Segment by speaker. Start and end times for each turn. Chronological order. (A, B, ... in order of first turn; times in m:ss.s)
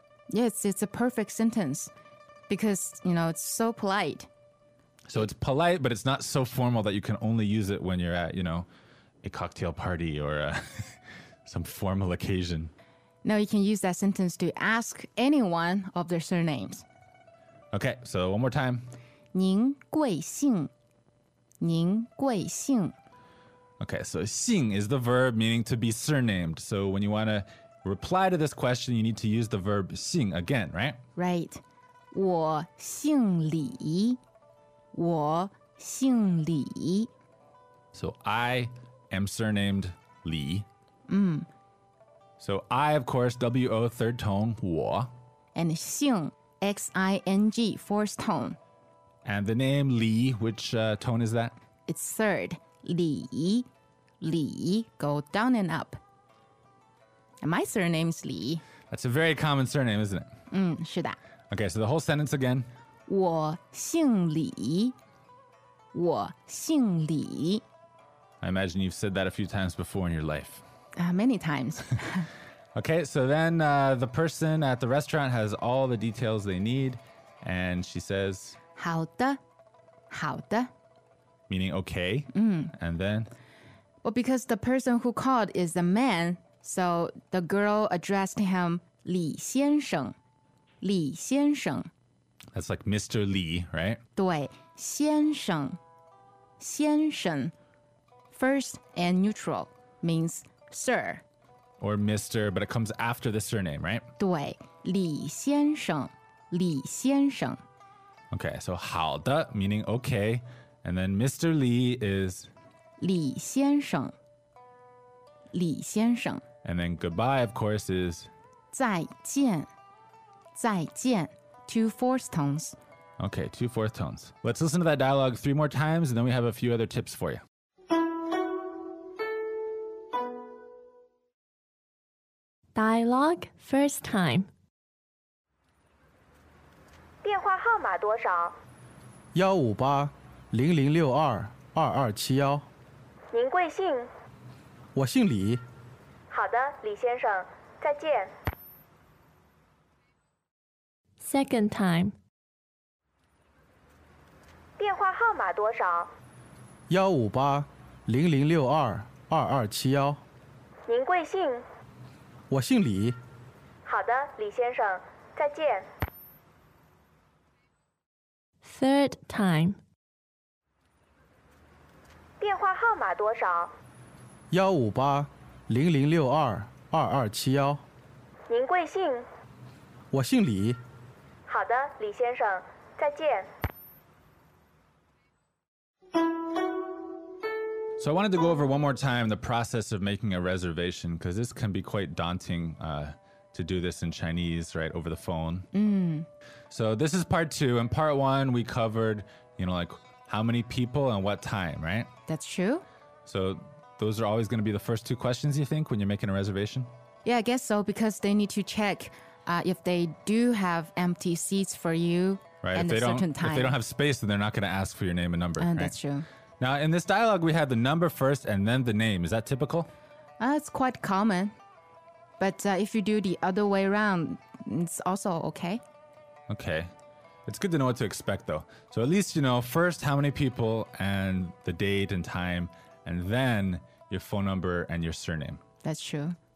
0:00.3-0:01.9 A
0:02.5-0:04.3 A
0:05.1-0:08.7 B
0:09.2-0:12.7 B
0:13.2-0:16.8 A
0:17.7-0:18.9 B
0:19.3-0:20.7 A
0:21.6-0:23.0 A
0:23.8-0:31.0 B
0:31.2-0:31.6 A
0:32.1-0:34.2 A
0:34.9-0:37.1 A
0:37.9-0:40.7 B
0:41.1-0:41.5 A
0:42.4-0:45.1 B
0:45.6-0:48.6 A
0:49.2-0:51.6 B
0:51.9-0:53.7 A
0:54.2-0:56.0 A
0:57.4-0:58.6 A
0:58.9-1:00.3 B
1:00.5-1:01.2 A
1:01.5-1:02.7 B
1:03.1-1:05.0 A
1:05.9-1:07.6 A
1:08.4-1:10.6 B
1:11.0-1:12.3 A
1:12.8-1:18.6 B
1:18.8-1:19.4 A
1:20.1-1:20.7 A
1:21.5-1:23.3 B
1:22.3-1:22.7 A
1:24.0-1:30.2 A
1:30.8-1:31.9 A
1:32.5-1:34.0 B
1:34.2-1:35.8 A
1:36.6-1:37.5 A
1:38.3-1:41.2 A
1:41.8-1:44.1 B
1:44.2-1:47.6 A
1:48.3-1:52.5 B
1:53.0-1:54.2 A
1:55.5-1:56.4 A
1:56.6-1:58.3 B
1:58.7-1:59.7 A
2:00.6-2:02.8 A
2:03.2-2:07.4 B
2:12.8-2:14.5 C
2:17.2-2:18.6 D
2:19.3-2:22.7 E
2:23.3-2:24.1 D
2:24.9-2:25.6 E
2:26.3-2:28.4 D
2:31.2-2:32.2 C
2:34.8-2:36.2 D
2:36.9-2:40.2 E
2:40.9-2:41.7 D
2:42.5-2:43.2 E
2:43.8-2:45.9 D
2:48.6-2:49.8 C
2:52.4-2:53.8 D
2:54.5-2:57.8 E
2:58.5-2:59.3 D
3:00.1-3:00.8 E
3:01.5-3:03.5 D
3:08.0-3:15.7 B
3:15.7-3:16.3 A
3:16.7-3:22.1 B
3:22.3-3:22.8 A
3:23.3-3:26.9 B
3:27.2-3:33.8 A
3:32.6-3:36.0 B
3:35.6-3:36.3 A
3:36.6-3:39.9 B
3:40.4-3:41.5 A
3:42.4-3:45.8 A
3:46.5-3:46.9 B
3:47.5-3:55.6 B
3:55.8-3:56.4 A